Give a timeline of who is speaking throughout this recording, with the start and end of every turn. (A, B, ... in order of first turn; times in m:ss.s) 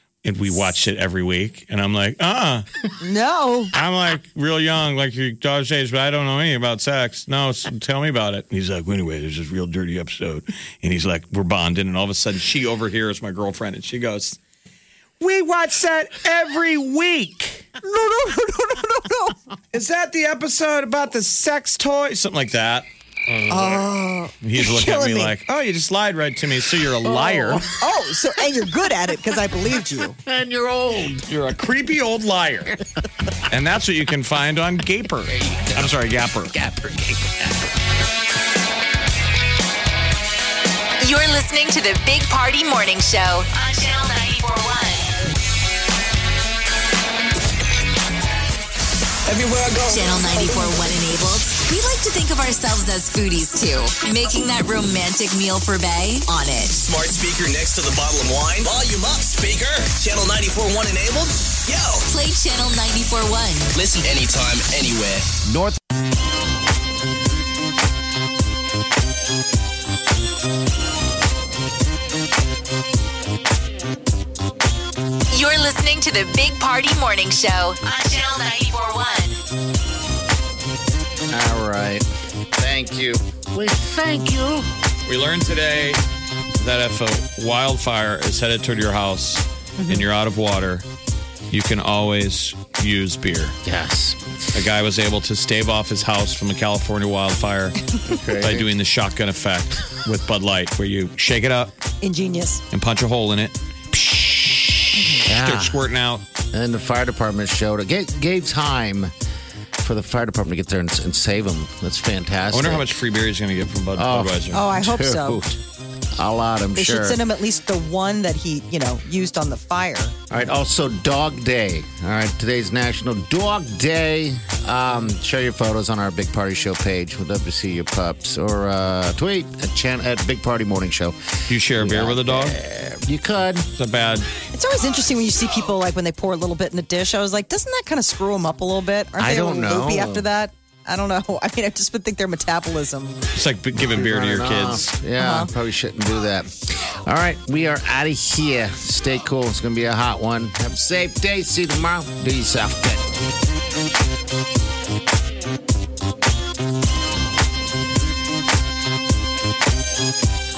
0:00.2-0:02.7 A
0:03.0-0:03.7 B
0:03.7-0:14.4 A
0:15.2-0:17.7 A
0:17.8-0:19.4 B
0:19.7-0:23.8 A
0:23.5-0:25.3 B
0:24.4-0:27.7 A
0:27.0-0:27.6 C
0:27.5-0:30.2 B
0:30.2-0:31.2 C
0:31.1-0:32.8 A
0:33.5-0:36.5 A
0:35.3-0:36.0 C
0:36.5-0:37.7 C
0:41.0-0:45.1 D
0:49.8-0:56.8 D
0:56.7-1:02.0 E
1:02.0-1:03.8 D
1:04.0-1:05.2 E
1:15.3-1:19.4 D
1:21.3-1:22.0 C
1:22.6-1:24.7 C
1:25.0-1:26.0 A
1:26.6-1:30.8 A
1:31.5-1:33.6 A
1:33.6-1:34.6 C
1:34.5-1:37.8 A
1:38.0-1:38.7 C
1:38.3-1:41.7 A
1:42.0-1:42.6 B
1:42.7-1:46.2 A
1:45.2-1:45.8 C
1:46.5-1:49.1 C
1:49.8-1:53.0 C
1:52.5-1:54.6 A
1:54.0-1:55.6 C
1:54.5-1:55.4 B
1:56.1-1:57.2 C
1:56.8-2:00.1 B
2:00.3-2:13.7 C
2:11.5-2:12.6 A
2:13.8-2:14.3 A
2:14.5-2:23.2 B
2:19.2-2:20.2 C
2:23.3-2:24.9 A
2:23.7-2:33.1 C
2:25.2-2:25.5 B